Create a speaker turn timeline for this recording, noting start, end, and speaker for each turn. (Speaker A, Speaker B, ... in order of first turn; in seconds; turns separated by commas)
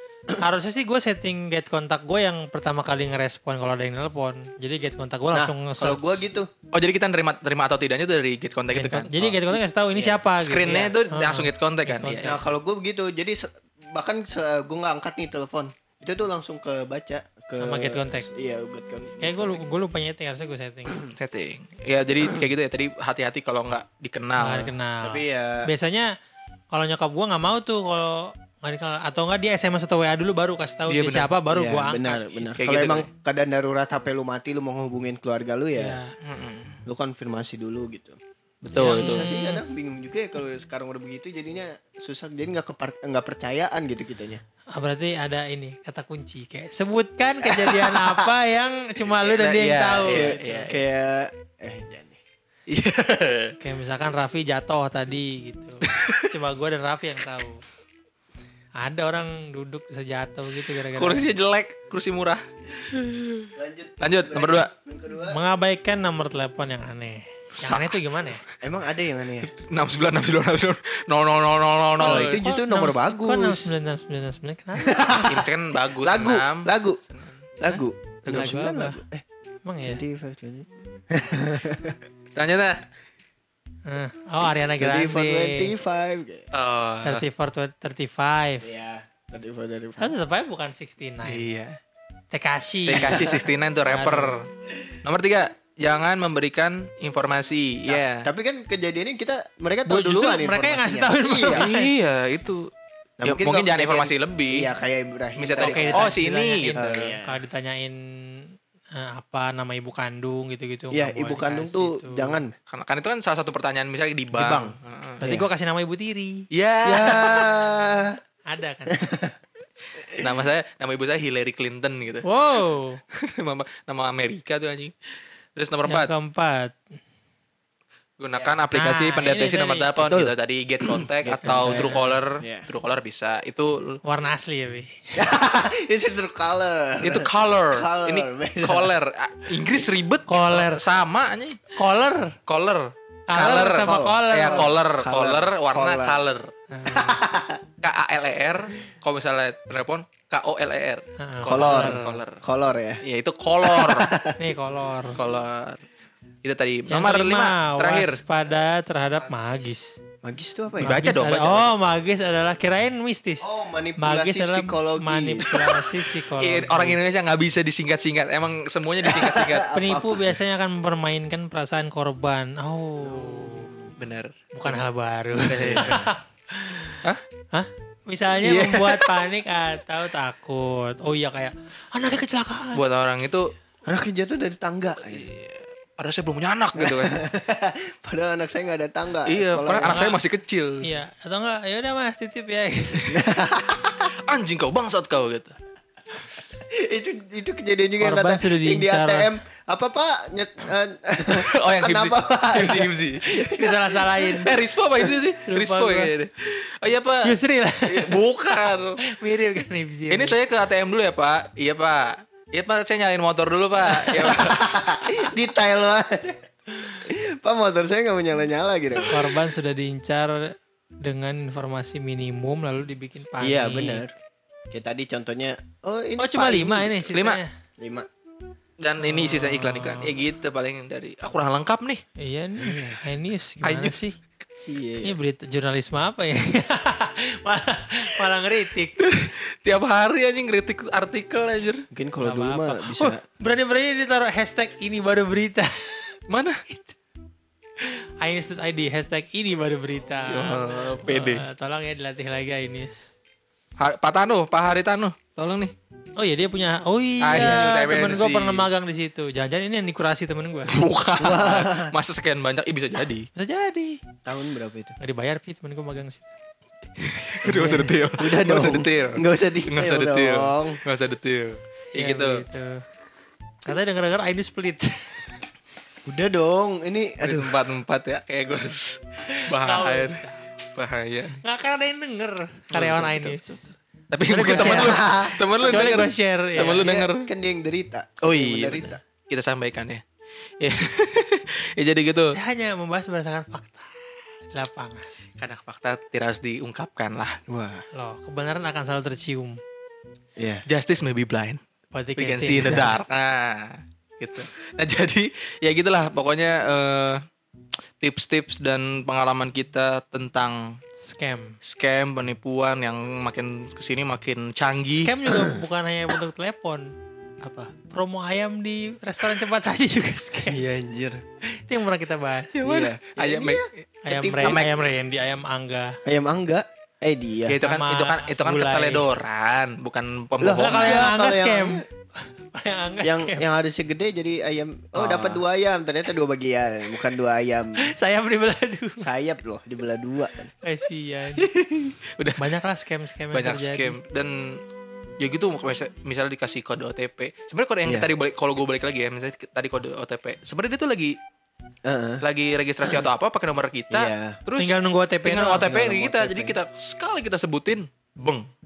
Speaker A: 0.4-6.2, Speaker B: 5.3-6.5, Speaker C: 6.7-9.2, Speaker A: 8.7-12.4, Speaker B: 9.2-10.9, Speaker C: 10.4-12.3, Speaker B: 12.2-19.6, Speaker A: 17.6-18.3, Speaker A: 19.2-21.1, Speaker C: 21.1-24.7, Speaker A: 24.4-26.1, Speaker B: 25.0-25.7, Speaker A: 26.7-32.4, Speaker C: 30.9-31.3, Speaker B: 31.5-36.0, Speaker C: 32.6-33.1, Speaker A: 35.8-36.1, Speaker C: 36.2-36.8, Speaker B: 36.9-38.2, Speaker C: 38.6-39.4, Speaker B: 38.7-44.4, Speaker A: 38.8-39.6, Speaker A: 44.8-50.7, Speaker B: 47.4-48.3, Speaker C: 49.2-50.8, Speaker B: 50.0-52.2, Speaker C: 52.7-53.6, Speaker A: 53.6-57.6, Speaker C: 55.8-56.3, Speaker A: 58.8-61.3, Speaker C: 60.8-64.7, Speaker B: 63.5-65.4, Speaker A: 65.2-68.4, Speaker C: 67.6-68.3, Speaker B: 68.6-69.5, Speaker C: 69.5-72.4, Speaker B: 72.0-73.7, Speaker A: 72.0-75.2, Speaker B: 74.8-75.4, Speaker C: 75.2-77.8, Speaker B: 76.0-77.0, Speaker B: 77.6-79.2, Speaker A: 78.3-79.0, Speaker A: 79.7-80.0, Speaker B: 79.8-82.0, Speaker C: 82.3-82.8, Speaker A: 83.9-85.7, Speaker B: 84.8-86.5, Speaker C: 86.5-87.3, Speaker A: 87.0-88.6, Speaker B: 88.6-90.2, Speaker A: 90.0-91.5, Speaker C: 91.2-91.8, Speaker A: 92.3-93.3, Speaker C: 92.9-94.5, Speaker B: 93.1-93.4, Speaker A: 93.9-94.4, Speaker C: 95.0-98.3, Speaker B: 97.9-101.7, Speaker A: 99.9-101.9, Speaker C: 101.5-102.7, Speaker B: 103.2-106.2, Speaker C: 103.3-104.7, Speaker C: 105.4-106.9, Speaker A: 105.6-112.4, Speaker B: 106.7-107.4, Speaker B: 110.9-112.5, Speaker C: 112.7-115.2, Speaker B: 114.3-115.5, Speaker A: 115.2-116.5, Speaker C: 116.5-117.5, Speaker B: 116.8-118.2, Speaker A: 118.5-119.0, Speaker B: 118.9-119.4, Speaker B: 120.0-120.3, Speaker C: 120.1-122.2, Speaker A: 122.2-123.0, Speaker C: 123.1-126.1, Speaker A: 125.9-126.8, Speaker C: 128.2-134.0, Speaker A: 128.7-130.0, Speaker B: 130.0-132.7, Speaker A: 131.4-132.0, Speaker A: 134.1-135.1, Speaker B: 135.2-138.9, Speaker C: 137.0-141.7, Speaker A: 140.3-140.8, Speaker A: 141.8-142.4, Speaker C: 142.5-146.5, Speaker A: 143.3-144.7, Speaker B: 143.8-146.2, Speaker A: 146.7-147.2, Speaker B: 146.9-147.6, Speaker C: 147.8-152.4, Speaker A: 151.2-152.2, Speaker B: 151.4-153.0, Speaker C: 153.0-154.1, Speaker B: 153.6-154.4, Speaker A: 154.4-155.2, Speaker C: 155.1-155.9, Speaker C: 156.4-158.2, Speaker A: 156.9-160.0, Speaker B: 160.2-161.0, Speaker C: 160.8-161.7, Speaker A: 160.8-163.5, Speaker B: 163.4-165.5, Speaker A: 164.0-167.0, Speaker C: 165.4-169.8, Speaker B: 169.0-170.3, Speaker A: 169.8-173.7, Speaker C: 173.2-174.4, Speaker A: 174.5-177.0, Speaker C: 175.4-176.1, Speaker B: 175.5-176.1, Speaker A: 177.5-182.8, Speaker B: 178.4-179.1, Speaker C: 182.7-183.5, Speaker B: 183.9-185.3, Speaker C: 185.0-187.2, Speaker B: 186.8-190.1, Speaker C: 189.3-190.9, Speaker A: 189.8-190.2, Speaker A: 190.8-193.2, Speaker B: 193.1-194.1, Speaker C: 194.1-195.6, Speaker B: 196.7-204.4, Speaker A: 198.0-199.3, Speaker C: 201.2-203.3, Speaker A: 203.4-204.6, Speaker C: 204.4-209.0, Speaker A: 205.4-206.1, Speaker A: 207.2-208.2, Speaker A: 209.0-210.4, Speaker C: 210.1-214.7, Speaker B: 213.9-219.2, Speaker C: 219.0-219.3, Speaker A: 219.1-224.0, Speaker B: 223.4-224.1, Speaker B: 224.7-227.1, Speaker A: 226.2-227.5, Speaker C: 227.1-227.4, Speaker B: 227.8-228.1, Speaker C: 228.8-232.0, Speaker A: 229.0-230.2, Speaker A: 232.2-234.2, Speaker B: 232.6-233.0, Speaker C: 233.6-234.0, Speaker B: 234.7-235.2, Speaker A: 235.0-239.1, Speaker C: 239.0-241.9, Speaker B: 241.9-243.2, Speaker A: 242.2-246.2, Speaker C: 246.3-246.6, Speaker A: 246.7-246.9, Speaker A: 247.8-253.1, Speaker C: 250.3-251.5, Speaker C: 253.8-255.8, Speaker A: 256.2-260.8, Speaker C: 257.2-258.7, Speaker B: 257.3-257.7, Speaker C: 260.7-263.3, Speaker B: 261.2-261.9, Speaker A: 263.4-264.0, Speaker B: 264.3-265.0, Speaker A: 265.0-266.3, Speaker C: 267.1-272.4, Speaker B: 267.4-270.8, Speaker A: 267.5-267.9, Speaker A: 272.0-272.8, Speaker A: 273.6-275.4, Speaker B: 276.1-277.5, Speaker C: 277.2-280.2, Speaker A: 279.4-280.4, Speaker C: 280.8-281.4, Speaker A: 281.4-283.6, Speaker C: 282.7-283.6, Speaker C: 284.1-287.3, Speaker A: 284.3-287.0, Speaker B: 284.5-285.5, Speaker B: 286.6-289.0, Speaker C: 288.2-290.0, Speaker C: 290.6-292.4, Speaker A: 292.3-293.9, Speaker A: 294.5-295.1, Speaker C: 295.4-297.4, Speaker B: 297.5-297.9, Speaker A: 297.9-299.6, Speaker B: 300.4-300.6, Speaker C: 300.7-301.6, Speaker A: 301.9-303.0, Speaker C: 302.2-307.2, Speaker C: 308.0-310.8, Speaker A: 311.0-311.6, Speaker C: 311.6-315.2, Speaker A: 314.9-316.9, Speaker B: 315.3-315.6, Speaker A: 317.9-320.6, Speaker B: 320.5-321.2, Speaker A: 321.6-322.7, Speaker C: 322.6-323.9, Speaker B: 322.6-324.7, Speaker A: 324.1-326.0, Speaker C: 324.4-324.7, Speaker B: 326.1-327.6, Speaker C: 327.5-331.1, Speaker A: 327.6-329.1, Speaker B: 330.4-331.8, Speaker A: 330.6-333.4, Speaker B: 333.0-337.9, Speaker C: 334.9-335.4, Speaker A: 337.8-339.0, Speaker B: 339.0-340.5, Speaker A: 340.6-341.5, Speaker C: 341.4-342.4, Speaker A: 342.4-344.0, Speaker C: 343.3-344.6, Speaker C: 345.2-351.2, Speaker B: 351.9-352.2, Speaker C: 352.2-358.5, Speaker B: 353.9-354.4, Speaker A: 354.6-355.7, Speaker B: 355.5-356.6